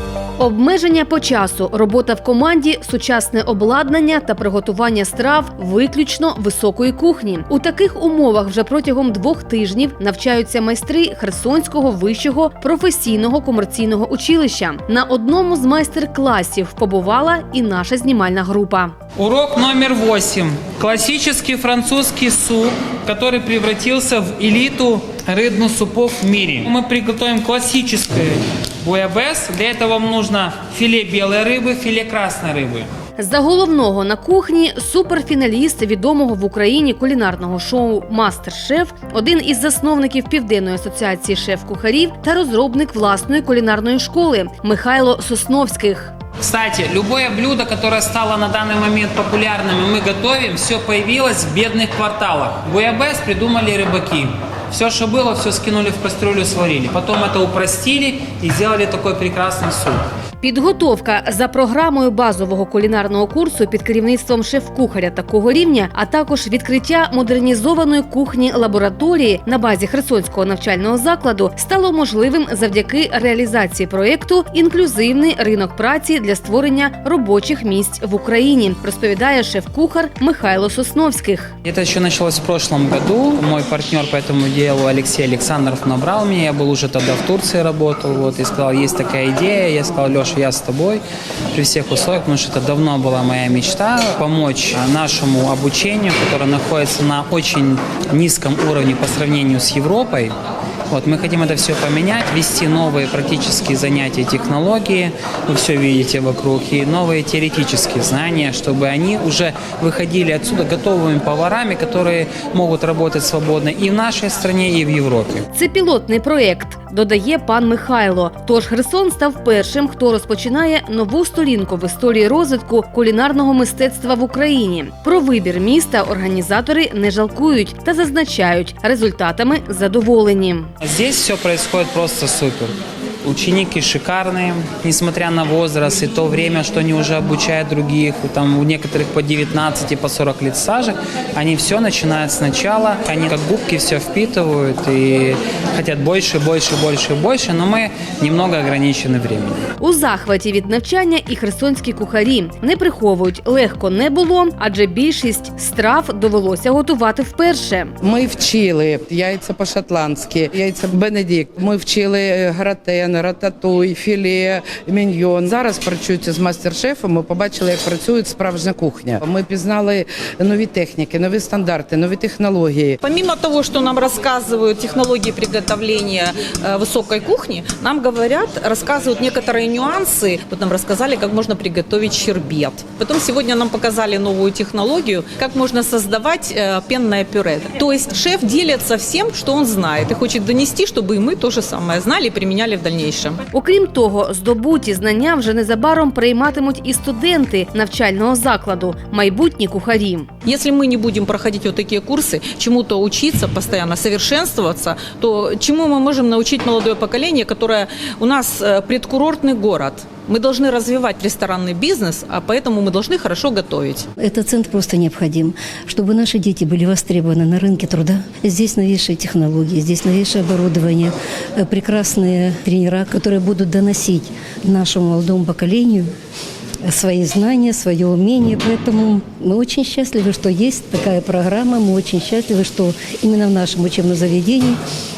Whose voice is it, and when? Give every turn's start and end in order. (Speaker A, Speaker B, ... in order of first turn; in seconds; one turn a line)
Speaker A: 0.4-18.9
Speaker B: 19.2-32.9
Speaker A: 33.2-46.1
Speaker B: 46.4-60.1
Speaker A: 60.4-81.5
Speaker B: 81.6-100.3
Speaker B: 100.9-115.5
Speaker A: 115.5-130.7
Speaker B: 130.8-149.7
Speaker A: 149.8-157.9
Speaker C: 158.0-173.0
Speaker D: 173.1-193.4
Speaker A: 193.5-200.3
Speaker D: 200.5-214.1
Speaker E: 214.2-226.1
Speaker E: 226.9-234.8